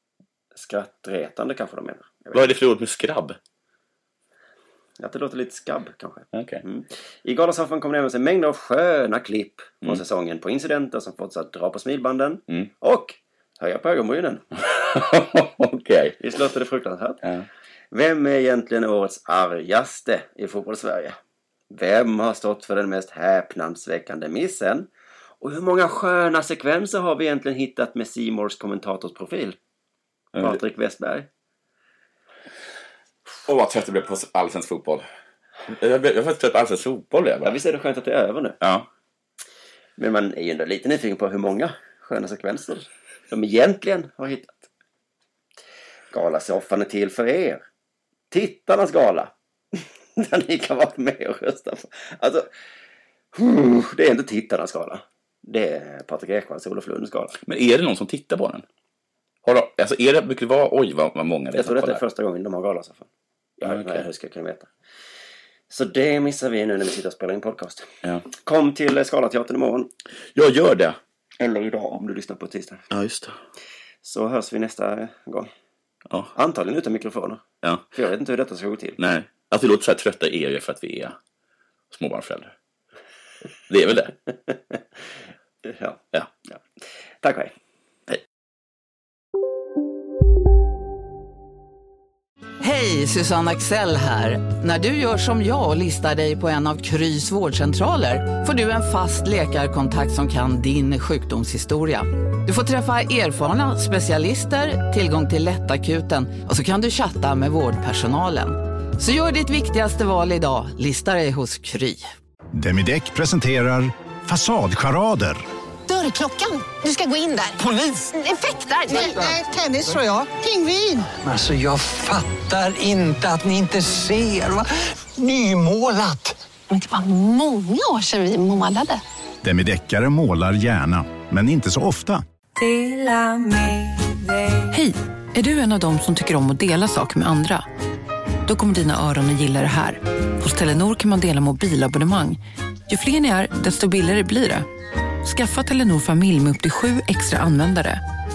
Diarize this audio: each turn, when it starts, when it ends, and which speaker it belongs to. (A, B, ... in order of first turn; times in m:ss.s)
0:00.5-0:02.5 A
0:02.3-0:03.4 B
0:05.0-0:14.4 A
0:06.3-0:06.6 B
0:14.6-0:16.2 B
0:16.2-0:17.2 A
0:17.9-0:21.2 A
0:21.7-0:24.9 A
0:25.4-0:29.6 A
0:30.3-0:31.3 A
0:33.4-0:35.0 B
0:35.7-0:37.6 B
0:37.4-0:38.6 A
0:38.6-0:38.9 B
0:40.0-0:44.7 A
0:46.1-0:47.6 A
0:48.3-0:52.5 A
0:53.3-0:57.4 A
0:57.4-0:58.6 B
0:59.4-1:02.0 B
1:01.5-1:03.1 A
1:03.6-1:04.7 A
1:03.6-1:04.0 B
1:05.7-1:09.9 A
1:10.3-1:11.0 B
1:11.4-1:12.8 A
1:12.9-1:13.4 B
1:14.0-1:15.5 A
1:16.3-1:19.0 A
1:19.0-1:21.2 B
1:21.9-1:22.5 B
1:23.7-1:24.1 B
1:25.6-1:26.6 A
1:27.2-1:27.5 A
1:32.6-1:52.1 C
1:52.5-1:55.4 D
1:55.9-2:01.0 E
1:58.9-2:00.0 F
2:01.1-2:06.4 F
2:06.7-2:09.0 E
2:09.4-2:12.2 D
2:14.7-2:17.7 G
2:18.4-2:24.7 G
2:25.2-2:28.0 G